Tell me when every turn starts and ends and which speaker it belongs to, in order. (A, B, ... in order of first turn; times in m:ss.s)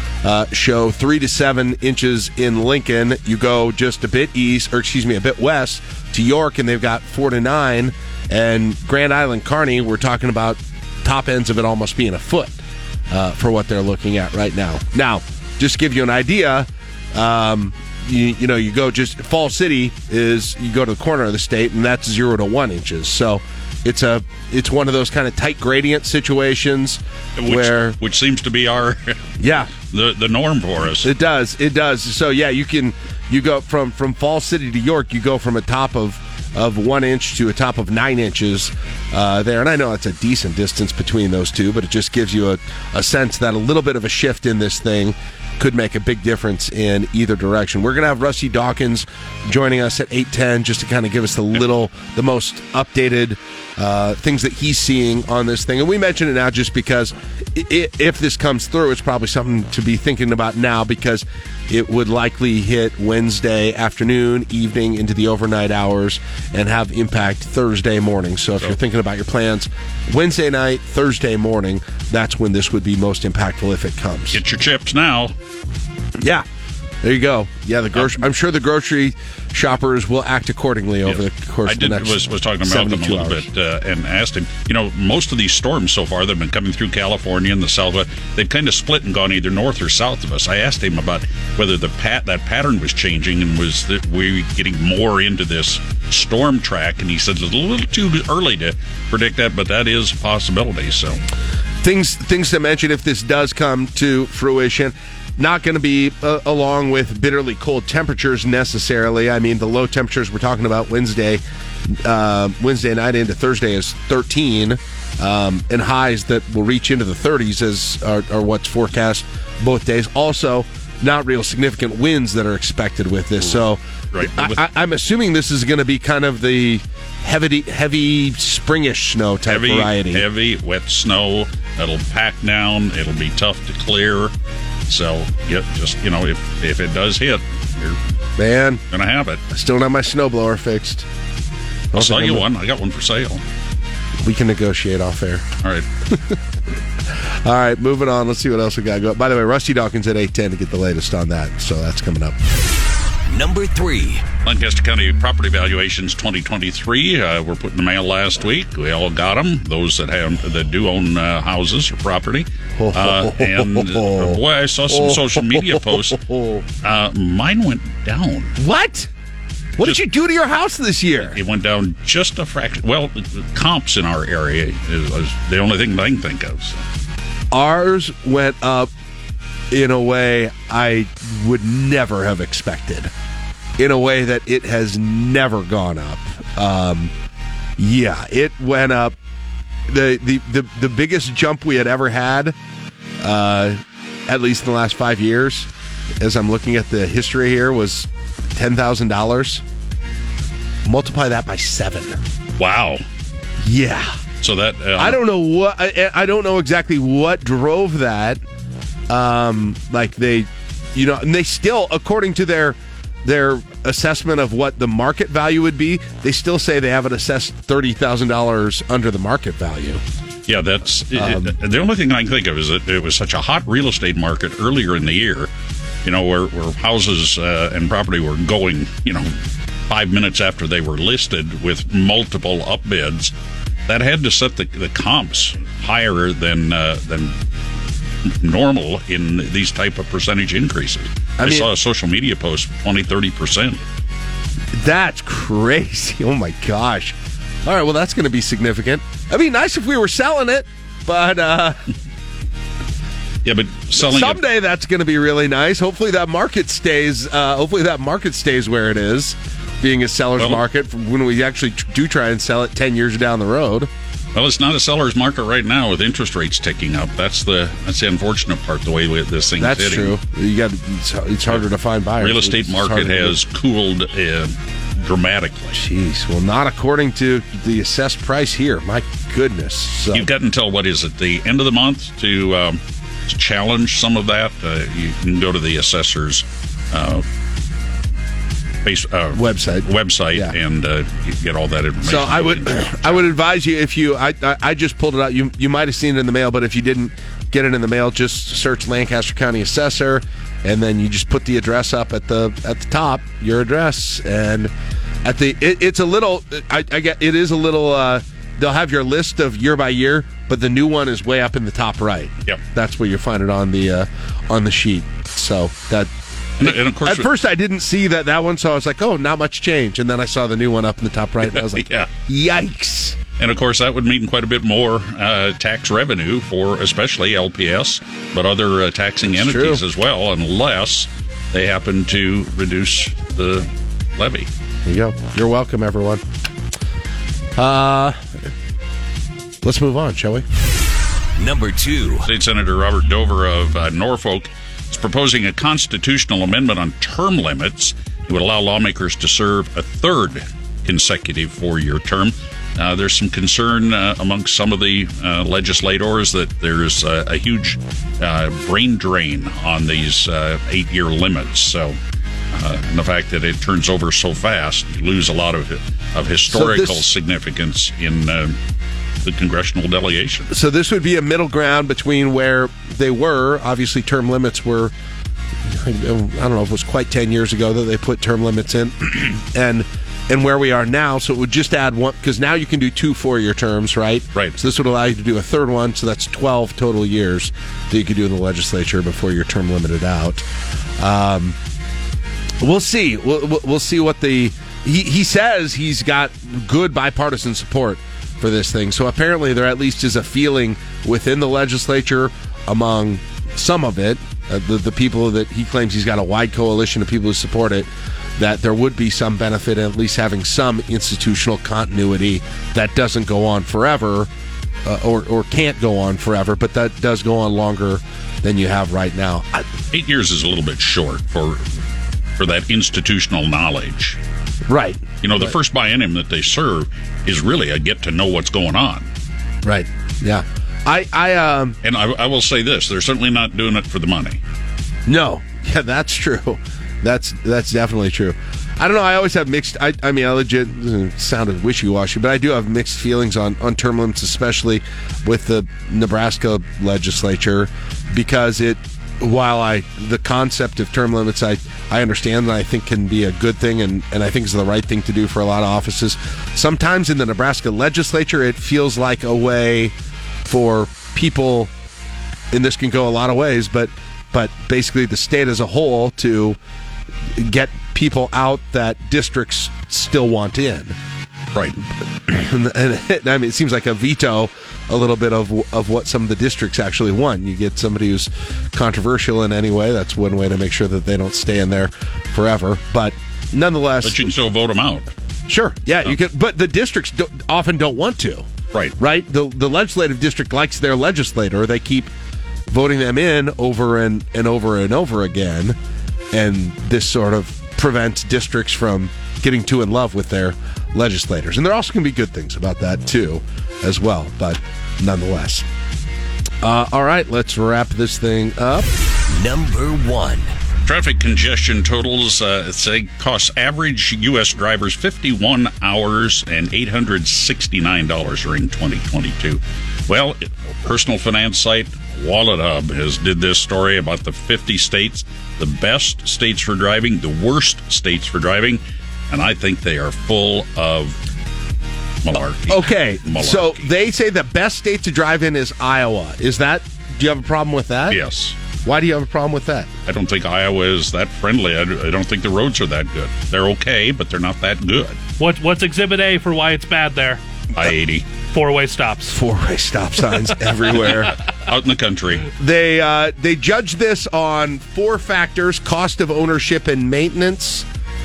0:00.2-0:12.6 A
0:13.1-0:28.0 A
0:27.4-0:29.3 B
0:29.4-0:29.7 A
0:29.9-0:31.1 B
0:31.0-1:14.4 A
1:14.3-1:15.3 B
1:16.2-1:16.4 A
1:17.0-1:23.4 A
1:17.9-1:18.2 B
1:21.0-1:41.2 B
1:41.8-2:10.2 A
2:04.1-2:04.6 B
2:09.4-2:14.3 B
2:14.9-2:18.0 B
2:18.4-2:18.8 A
2:18.9-2:19.4 B
2:19.5-2:21.1 A
2:21.9-2:23.4 B
2:21.9-2:22.4 A
2:24.2-2:25.4 A
2:26.1-2:26.4 A
2:27.1-2:32.4 A
2:33.3-2:34.3 C
2:34.4-2:46.2 B
2:42.8-2:46.6 A
2:46.8-2:48.5 B
2:48.6-2:49.1 A
2:49.8-2:51.4 A
2:51.3-2:56.8 B
2:57.5-2:58.9 A
2:59.7-3:03.1 A
3:03.8-3:07.1 A
3:07.8-3:09.2 A
3:09.9-3:12.6 A
3:13.2-3:15.7 A
3:16.2-3:19.6 A
3:20.8-3:22.2 A
3:22.6-3:23.0 B
3:23.6-3:24.2 A
3:24.4-3:25.2 B
3:25.0-3:28.4 A
3:29.1-3:40.0 A
3:40.5-3:45.5 B
3:41.1-3:41.5 A
3:46.0-3:49.3 B
3:49.9-3:53.3 B
3:53.9-3:57.3 B
3:58.2-4:03.8 B
4:01.4-4:01.7 A
4:04.7-4:11.8 A
4:13.4-4:14.4 B
4:13.9-4:23.9 A
4:24.3-4:30.2 B
4:29.6-4:33.4 A
4:32.2-4:35.8 B
4:35.7-4:40.3 A
4:40.1-4:47.2 B
4:48.8-4:53.2 B
4:49.3-4:50.6 A
4:52.0-5:04.7 A
5:05.2-5:16.1 A
5:16.6-5:17.3 B
5:16.6-5:23.2 A
5:21.5-5:22.1 B
5:23.4-5:34.5 B
5:29.3-5:29.8 A
5:34.8-5:36.2 A
5:37.6-5:38.5 A
5:39.6-5:40.4 A
5:41.4-5:42.3 C
5:42.2-6:02.0 B
6:02.5-6:08.6 B
6:06.5-6:07.0 A
6:09.2-6:10.5 B
6:10.5-6:14.9 A
6:15.7-6:30.4 A
6:31.0-6:31.6 A
6:32.6-6:54.3 A
6:54.8-6:59.7 A
6:59.9-7:01.6 B
7:02.4-7:04.2 B
7:04.7-7:05.5 A
7:05.2-7:09.1 B
7:09.6-7:11.8 A
7:11.8-7:14.4 B
7:15.1-7:39.9 A
7:40.4-7:41.7 A
7:42.5-7:46.6 A
7:47.3-7:51.0 A
7:52.3-8:04.2 A
8:04.0-8:05.0 B
8:05.5-8:08.5 A
8:09.0-8:12.1 A
8:12.7-8:15.8 A
8:16.3-8:25.7 A
8:26.6-8:28.9 A
8:29.3-8:30.5 C
8:30.8-8:51.2 B
8:52.2-8:53.9 B
8:52.7-8:58.2 A
8:58.1-8:58.6 B
8:58.8-8:59.9 A
9:00.0-9:05.2 B
9:05.4-9:07.4 D
9:07.7-9:08.3 B
9:08.5-9:09.4 D
9:09.3-9:11.4 A
9:10.9-9:12.5 B
9:12.6-9:17.9 A